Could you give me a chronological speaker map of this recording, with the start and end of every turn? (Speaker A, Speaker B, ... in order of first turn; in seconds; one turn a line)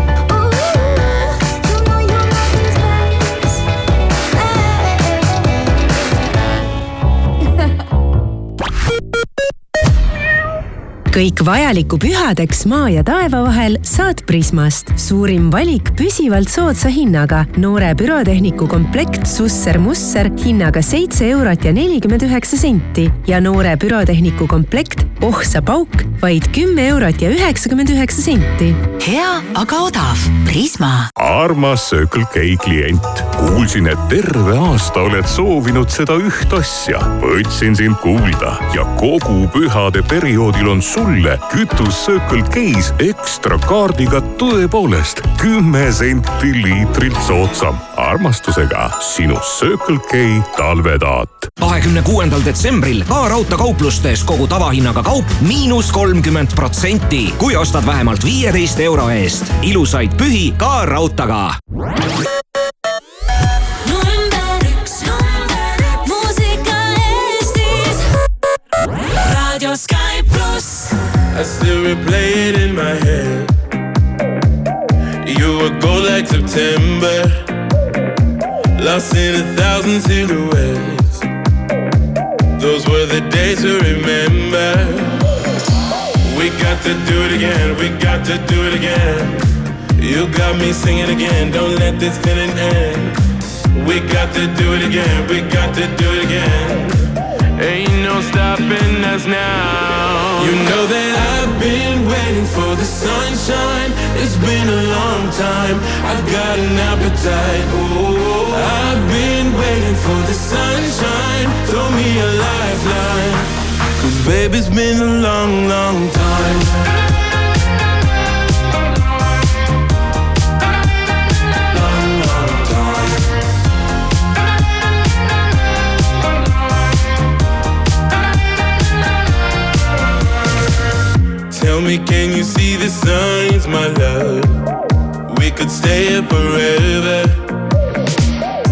Speaker A: 11.1-28.8
Speaker B: 29.0-31.1
Speaker C: 31.2-51.2
Speaker B: 51.6-61.6
Speaker D: 63.8-68.0
Speaker D: 69.1-70.9
Speaker E: 71.3-73.5
Speaker E: 75.2-77.4
Speaker E: 78.8-81.2
Speaker E: 82.6-85.1
Speaker E: 86.2-89.4
Speaker E: 90.0-93.2
Speaker E: 93.7-97.0
Speaker E: 97.6-116.9
Speaker E: 121.7-123.2
Speaker E: 131.5-134.6
Speaker E: 135.3-137.4